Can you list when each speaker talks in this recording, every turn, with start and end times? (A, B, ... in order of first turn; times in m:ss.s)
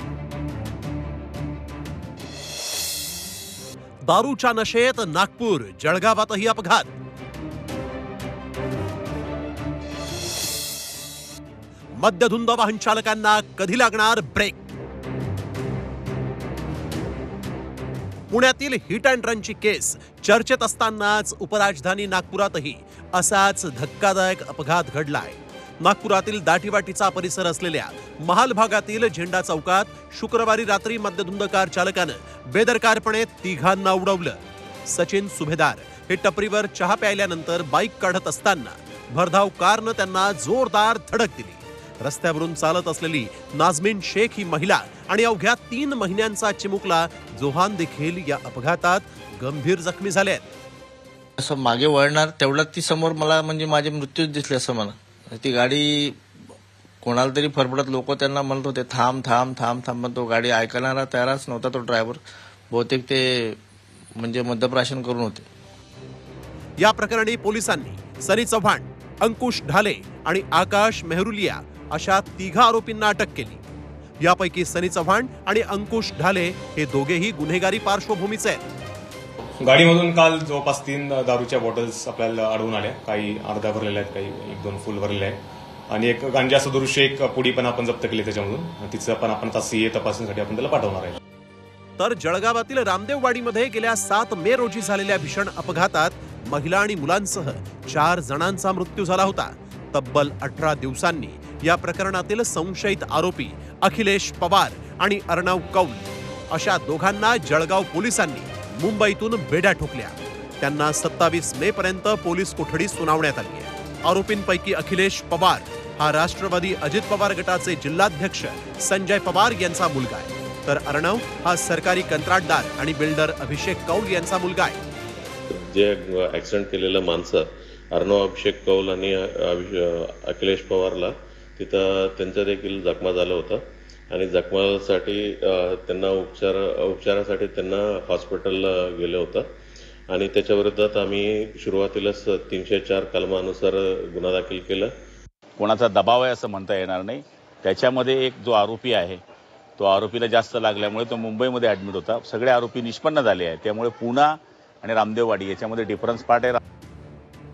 0:04.1-0:06.9 A
0:12.0-0:14.6 A
0:18.3-0:50.4 A
0:51.4-0:56.2 B
0:57.0-1:03.6 B
1:04.2-1:05.4 B
1:06.8-1:13.6 A
1:14.2-1:18.6 A
1:19.6-1:25.4 C
1:25.9-1:31.2 C
1:32.0-2:04.8 A
2:05.5-2:19.5 D
2:20.1-2:24.9 D
2:25.6-2:29.2 E
2:29.8-2:36.6 E